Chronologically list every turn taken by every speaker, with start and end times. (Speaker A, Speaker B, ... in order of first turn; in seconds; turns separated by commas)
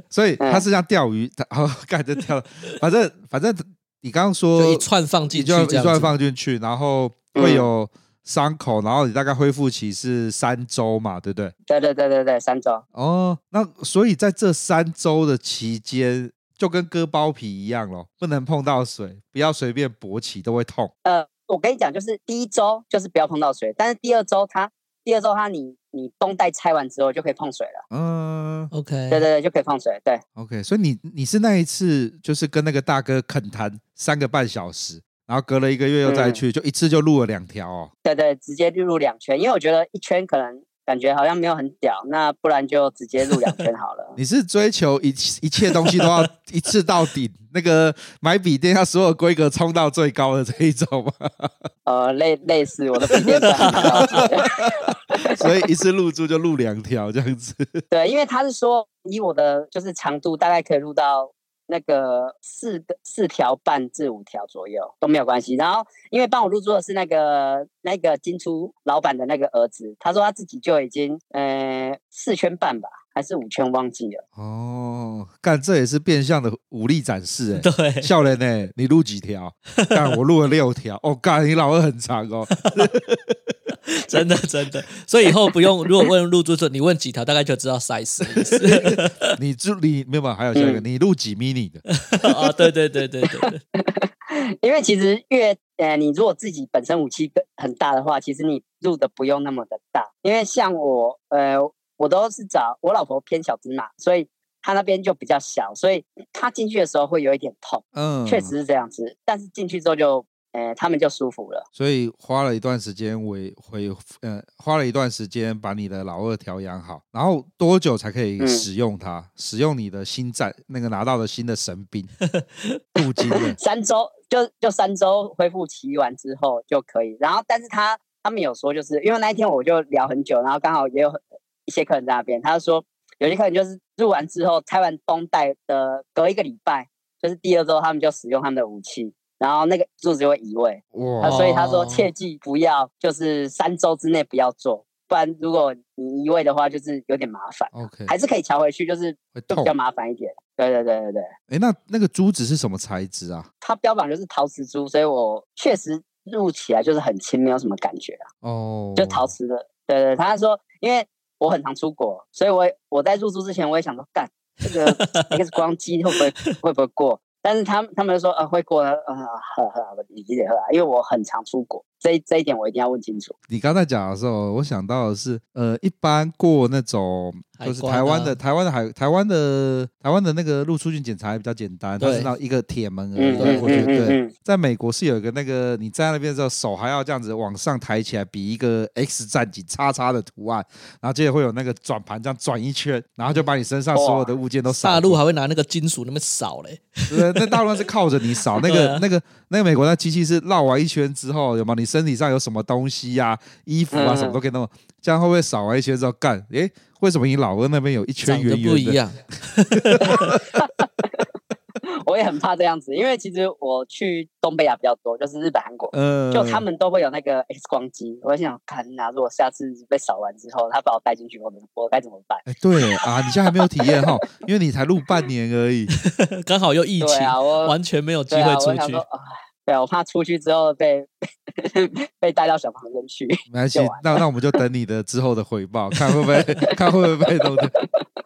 Speaker A: 0.1-11.5, Speaker B: 0.4-0.7, Speaker C: 4.6-6.1, Speaker B: 7.3-7.7, Speaker B: 11.7-12.8, Speaker A: 12.9-20.9, Speaker B: 21.1-27.8, Speaker A: 27.9-28.7, Speaker C: 28.7-29.3, Speaker B: 29.1-30.2, Speaker A: 30.4-37.9, Speaker B: 36.0-36.4, Speaker B: 38.0-44.2, Speaker A: 44.2-51.7, Speaker B: 51.9-55.4, Speaker C: 53.5-54.0, Speaker A: 53.6-57.8, Speaker B: 57.9-74.2, Speaker A: 74.4-83.5, Speaker C: 77.6-78.1, Speaker C: 84.0-89.1, Speaker A: 88.7-91.8, Speaker B: 90.5-90.8, Speaker C: 92.1-93.6, Speaker B: 93.8-111.7, Speaker A: 107.9-108.5, Speaker A: 111.8-122.1, Speaker B: 118.4-118.7, Speaker A: 123.0-123.6, Speaker B: 123.5-151.3, Speaker A: 140.9-141.5, Speaker C: 141.3-142.1, Speaker A: 147.7-148.1, Speaker A: 149.3-149.7, Speaker A: 151.5-153.5, Speaker B: 153.6-158.3, Speaker A: 158.4-159.3, Speaker B: 159.0-173.3, Speaker C: 164.9-165.3, Speaker A: 173.5-195.2, Speaker C: 177.6-178.4, Speaker C: 182.0-182.3, Speaker B: 183.2-184.3, Speaker C: 183.3-183.9, Speaker B: 193.9-194.3, Speaker C: 194.7-197.6, Speaker A: 197.1-209.0, Speaker C: 198.6-199.1, Speaker B: 203.9-204.4, Speaker C: 208.2-210.4, Speaker A: 210.0-210.3, Speaker B: 210.2-210.7, Speaker B: 212.1-222.4, Speaker A: 215.9-216.7, Speaker A: 222.5-225.9, Speaker C: 226.2-229.0, Speaker B: 227.0-227.8, Speaker B: 228.3-234.1, Speaker A: 233.5-237.7